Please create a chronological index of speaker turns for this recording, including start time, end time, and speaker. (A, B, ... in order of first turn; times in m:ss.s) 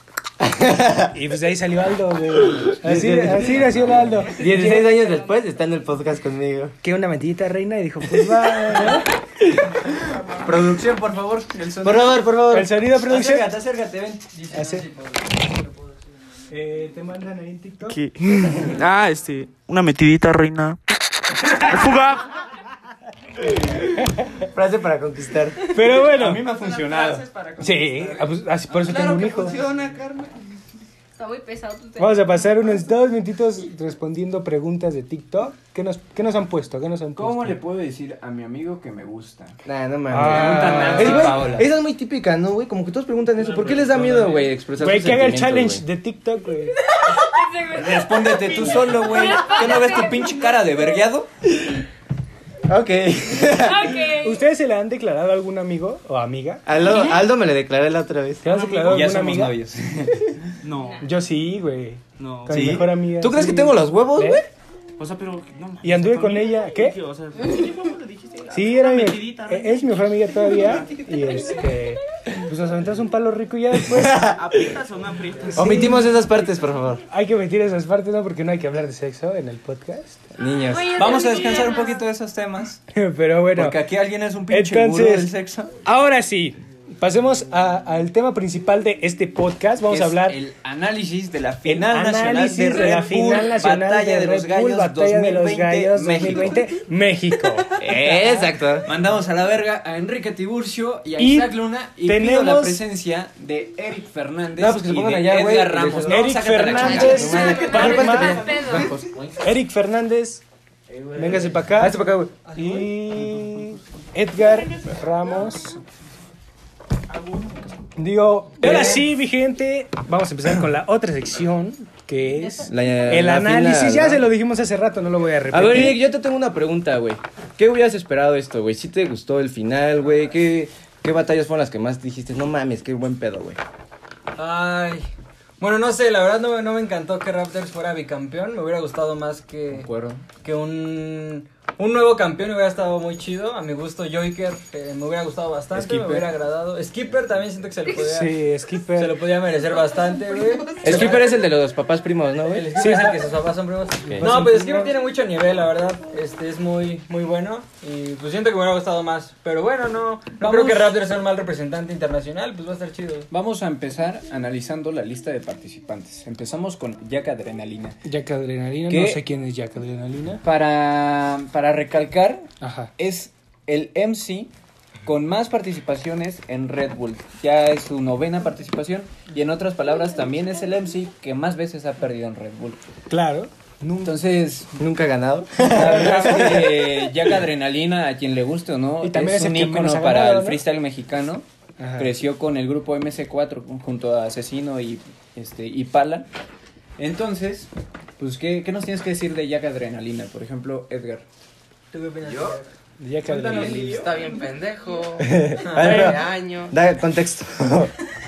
0:00.4-0:01.1 A
0:01.1-0:05.0 B
0:02.6-0:06.7 A
0:03.7-0:04.0 C
0:04.3-0:05.5 D
0:06.8-0:09.1 B
0:10.2-0:12.2 C
0:11.8-0:12.7 A
0:12.5-0:13.5 B
0:13.0-0:14.3 C
0:14.3-0:15.9 E
0:14.5-0:14.9 B
0:16.5-0:18.0 B
0:17.9-0:20.8 F
0:21.4-0:22.3 F
0:24.0-0:24.4 B
0:24.4-0:25.6 A
0:25.7-0:26.4 B
0:25.9-0:30.3 C
0:27.6-0:29.6 B
0:31.2-0:32.4 D
0:32.0-0:37.6 B
0:37.2-0:39.6 C
0:39.6-0:45.8 A
0:40.1-0:41.6 B
0:40.2-0:41.6 C
0:43.4-0:44.4 F
0:44.8-0:46.8 B
0:46.8-0:51.0 D
0:47.7-0:51.3 C
0:52.7-0:54.0 A
0:53.4-0:54.4 D
0:54.0-0:56.6 B
0:56.6-0:58.5 A
0:58.4-0:59.5 B
0:58.5-0:59.0 F
0:58.9-1:00.5 C
1:00.6-1:01.0 F
1:01.0-1:04.4 B
1:02.2-1:02.8 F
1:02.5-1:04.4 A
1:05.0-1:11.3 F
1:05.8-1:07.0 B
1:08.5-1:14.4 B
1:13.9-1:14.6 A
1:14.3-1:15.9 F
1:15.4-1:16.0 B
1:15.5-1:17.0 A
1:17.1-1:20.2 B
1:20.4-1:21.0 A
1:20.7-1:22.0 D
1:20.9-1:22.8 C
1:22.9-1:23.8 B
1:23.5-1:25.7 C
1:24.5-1:25.3 B
1:25.8-1:30.4 B
1:29.9-1:36.6 C
1:31.6-1:37.7 B
1:37.8-1:38.9 A
1:37.8-1:49.0 C
1:41.2-1:42.8 B
1:44.6-1:48.5 A
1:46.1-1:50.4 B
1:47.0-1:49.0 D
1:51.1-1:55.8 B
1:51.8-1:52.3 A
1:57.1-1:57.6 F
1:58.0-2:06.0 B
1:58.6-1:59.0 A
2:02.6-2:04.3 A
2:05.5-2:13.6 A
2:14.4-2:15.0 E
2:15.6-2:19.9 E
2:19.7-2:20.2 C
2:20.4-2:28.3 E
2:25.7-2:26.3 C
2:27.9-2:29.2 B
2:28.9-2:31.2 E
2:30.2-2:31.1 D
2:30.8-2:32.7 A
2:32.5-2:43.3 E
2:32.7-2:33.2 B
2:34.0-2:34.9 B
2:40.4-2:41.0 C
2:43.3-2:48.0 C
2:48.0-2:50.4 B
2:48.9-2:49.2 C
2:50.4-2:54.5 C
2:52.6-2:52.9 B
2:55.0-3:02.8 C
3:03.1-3:04.2 B
3:04.0-3:04.7 C
3:04.8-3:06.9 A
3:05.6-3:06.6 B
3:05.6-3:11.4 C
3:09.0-3:10.6 B
3:11.8-3:12.1 B
3:12.0-3:16.3 C
3:17.0-3:21.2 C
3:21.9-3:22.7 E
3:22.2-3:22.6 G
3:23.0-3:24.1 B
3:23.3-3:26.7 G
3:25.2-3:27.9 A
3:25.6-3:26.0 E
3:25.7-3:26.2 B